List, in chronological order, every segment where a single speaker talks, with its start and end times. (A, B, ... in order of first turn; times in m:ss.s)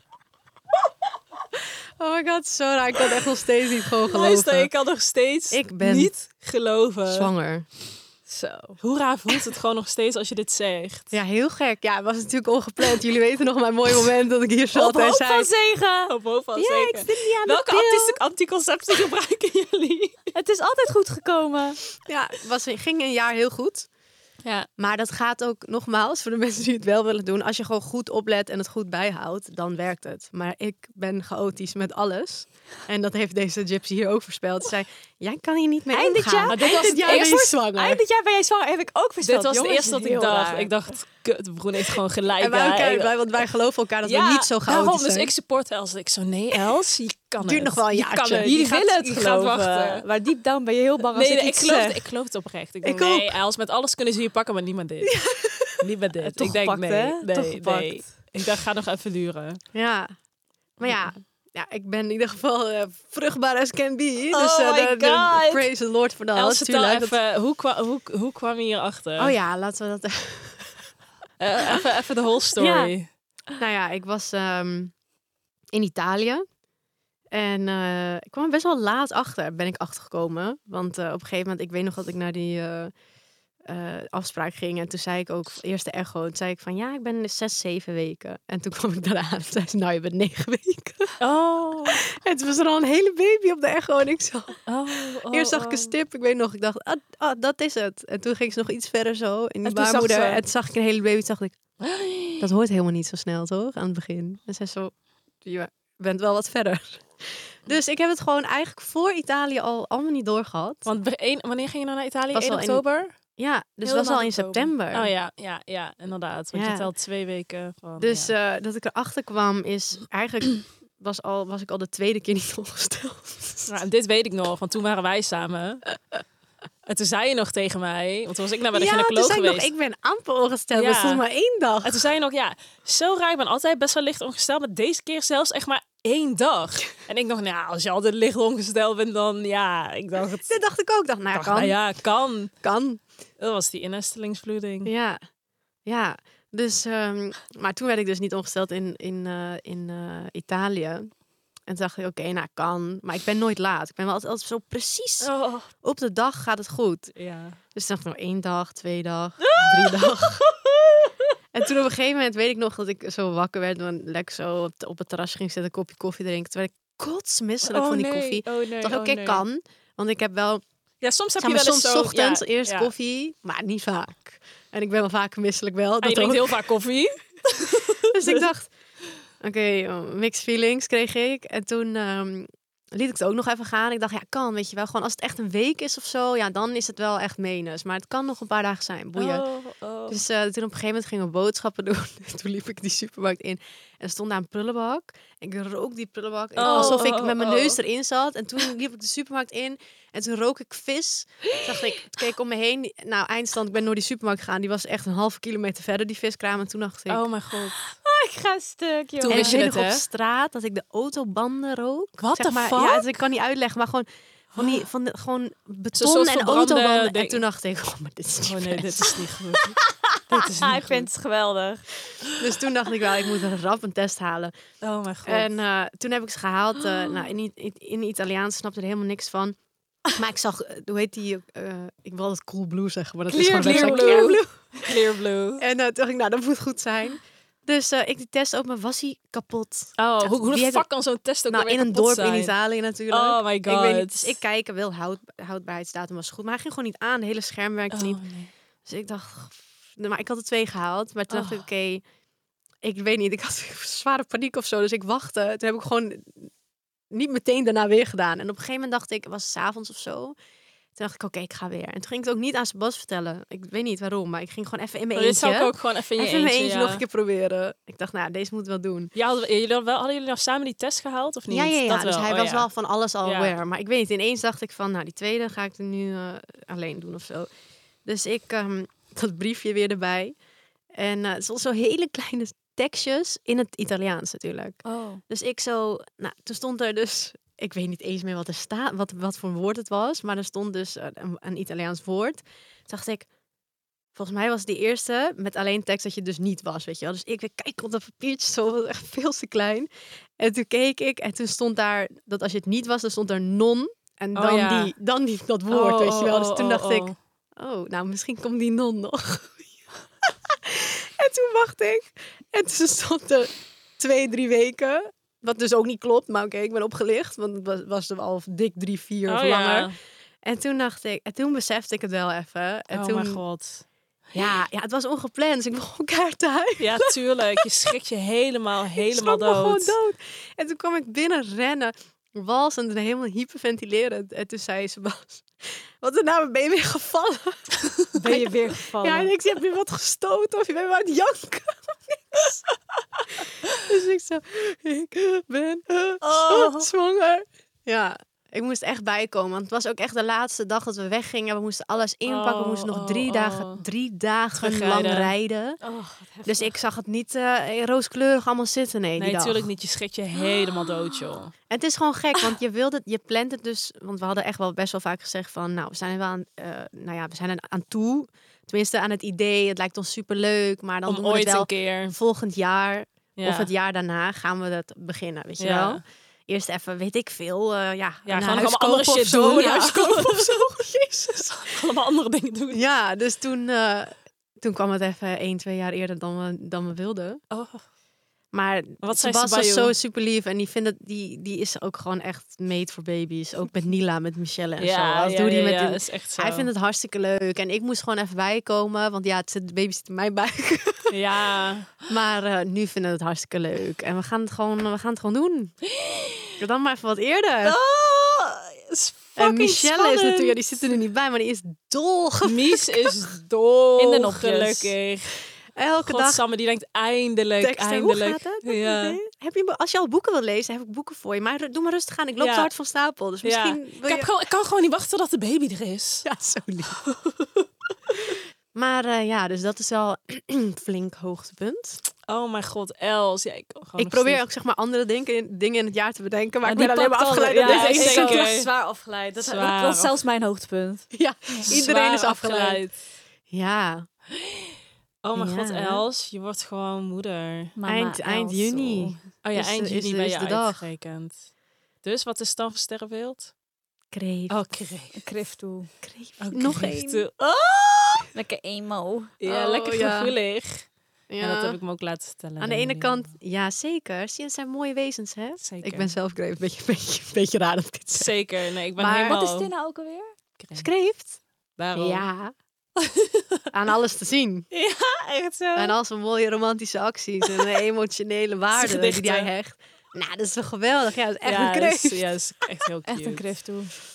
0:02.0-0:04.7 A
0:04.1-0:07.3 B
0:05.5-0:06.1 A
0:07.1-0:07.7 A
0:08.3-0:08.8 C
0:08.8-0:11.1 B
0:11.1-0:15.5 A
0:14.7-0:18.2 C
0:16.0-0:20.3 B
0:20.3-0:21.8 C
0:22.1-0:23.9 A
0:24.8-0:38.0 A
0:35.9-0:40.7 C
0:36.5-0:37.3 B
0:39.2-0:43.3 B
0:42.4-0:45.3 A
0:44.0-0:50.0 B
0:47.4-0:48.6 A
0:48.4-0:52.0 C
0:51.1-0:55.2 B
0:52.8-0:53.4 A
0:55.3-0:55.5 A
0:55.8-0:59.6 B
0:56.2-0:58.2 C
0:59.7-1:00.1 A
1:00.8-1:07.2 A
1:04.3-1:05.7 B
1:06.3-1:09.3 B
1:09.2-1:10.9 A
1:11.4-1:13.1 B
1:12.6-1:12.9 C
1:13.6-1:14.9 A
1:15.7-1:16.4 A
1:17.3-1:22.9 A
1:23.6-1:31.2 A
1:31.2-1:32.0 B
1:32.0-1:41.8 A
1:34.7-1:35.9 B
1:39.6-1:40.4 B
1:41.8-1:42.5 B
1:42.4-1:50.9 A
1:50.8-1:53.1 B
1:52.3-1:55.1 A
1:53.8-1:54.7 C
1:54.9-1:58.3 B
1:56.5-1:56.9 A
1:58.0-2:03.8 A
2:03.6-2:05.9 B
2:06.8-2:09.7 B
2:08.7-2:12.1 A
2:10.7-2:11.2 B
2:11.8-2:20.6 B
2:20.4-2:23.0 A
2:21.3-2:22.6 B
2:23.4-2:24.9 B
2:24.8-2:25.2 A
2:25.8-2:31.1 A
2:31.6-2:37.2 A
2:35.2-2:35.7 B
2:37.2-2:37.6 B
2:37.7-2:40.5 A
2:39.4-2:41.1 B
2:41.5-2:50.6 A
2:47.6-2:49.4 B
2:51.0-2:52.9 B
2:51.4-2:56.6 A
2:56.0-2:58.4 B
2:58.1-2:58.7 A
2:59.4-3:09.4 A
3:09.2-3:10.2 B
3:10.1-3:27.2 A
3:16.6-3:17.8 B
3:16.6-3:17.1 C
3:27.1-3:27.9 B
3:28.0-3:29.6 C
3:29.2-3:30.0 B
3:29.3-3:39.2 A
3:32.2-3:33.1 B
3:35.9-3:37.4 B
3:38.4-3:39.8 B
3:40.3-3:41.1 B
3:40.5-3:41.8 C
3:42.4-3:44.5 A
3:44.8-3:45.5 B
3:45.2-3:49.6 A
3:50.1-3:55.0 A
3:53.3-3:54.4 C
3:53.5-3:55.6 B
3:55.6-4:12.0 A
4:00.0-4:04.4 B
4:07.9-4:08.5 B
4:11.3-4:11.6 B
4:12.8-4:16.5 A
4:17.1-4:20.3 A
4:21.0-4:29.1 A
4:25.1-4:27.0 B
4:29.1-4:32.7 B
4:31.5-4:37.5 A
4:33.2-4:33.5 B
4:38.0-4:40.3 A
4:40.9-4:53.3 A
4:44.8-4:45.2 C
4:54.1-5:23.4 A
5:04.3-5:04.9 B
5:05.7-5:07.2 B
5:19.3-5:20.0 B
5:22.9-5:23.8 B
5:24.3-5:27.7 A
5:26.8-5:30.0 B
5:29.0-5:37.7 A
5:38.1-5:39.3 C
5:38.3-5:42.6 A
5:43.3-5:55.8 A
5:46.2-5:46.9 B
5:52.2-5:53.8 B
5:54.6-5:55.3 B
5:55.8-5:56.8 C
5:56.4-5:59.7 A
5:59.2-6:01.5 B
6:01.7-6:21.8 A
6:11.0-6:12.2 B
6:13.4-6:13.7 B
6:15.6-6:16.0 B
6:18.3-6:20.6 B
6:21.4-6:22.8 B
6:22.7-6:27.4 A
6:27.5-6:27.8 B
6:28.5-6:41.1 A
6:29.0-6:29.9 B
6:34.8-6:36.7 B
6:41.1-6:42.0 B
6:42.1-6:45.8 A
6:46.0-6:46.4 B
6:46.6-6:47.8 A
6:47.6-6:50.6 B
6:49.4-6:53.3 A
6:52.4-6:55.4 B
6:54.0-6:54.9 C
6:55.7-6:56.4 A
6:56.0-6:59.2 B
6:57.6-7:04.3 A
7:02.4-7:02.7 B
7:03.4-7:06.2 B
7:06.2-7:07.0 A
7:08.7-7:12.0 A
7:12.3-7:14.4 B
7:14.0-7:18.5 A
7:16.7-7:18.7 B
7:16.7-7:21.7 C
7:19.4-7:20.2 B
7:21.1-7:22.8 A
7:21.7-7:23.0 B
7:23.5-7:24.1 A
7:25.2-7:27.7 B
7:25.4-7:26.0 A
7:27.8-7:29.2 C
7:27.8-7:30.8 A
7:29.4-7:33.5 B
7:34.1-7:34.6 A
7:34.5-7:35.2 B
7:35.2-7:35.9 C
7:36.0-7:37.3 A
7:36.4-7:38.3 B
7:38.3-7:39.3 C
7:39.4-7:43.3 B
7:39.4-7:40.3 A
7:41.3-7:41.8 A
7:42.6-7:48.4 A
7:45.6-7:46.1 B
7:48.1-7:49.7 B
7:49.0-7:49.4 A
7:49.2-7:50.3 C
7:50.6-7:50.9 B
7:50.8-7:51.4 A
7:51.8-7:52.2 B
7:51.9-7:52.5 A
7:53.1-7:53.4 B
7:53.7-7:54.7 A
7:54.7-7:55.9 B
7:55.7-8:02.2 A
7:58.7-7:59.5 B
8:01.4-8:03.7 B
8:03.0-8:03.9 C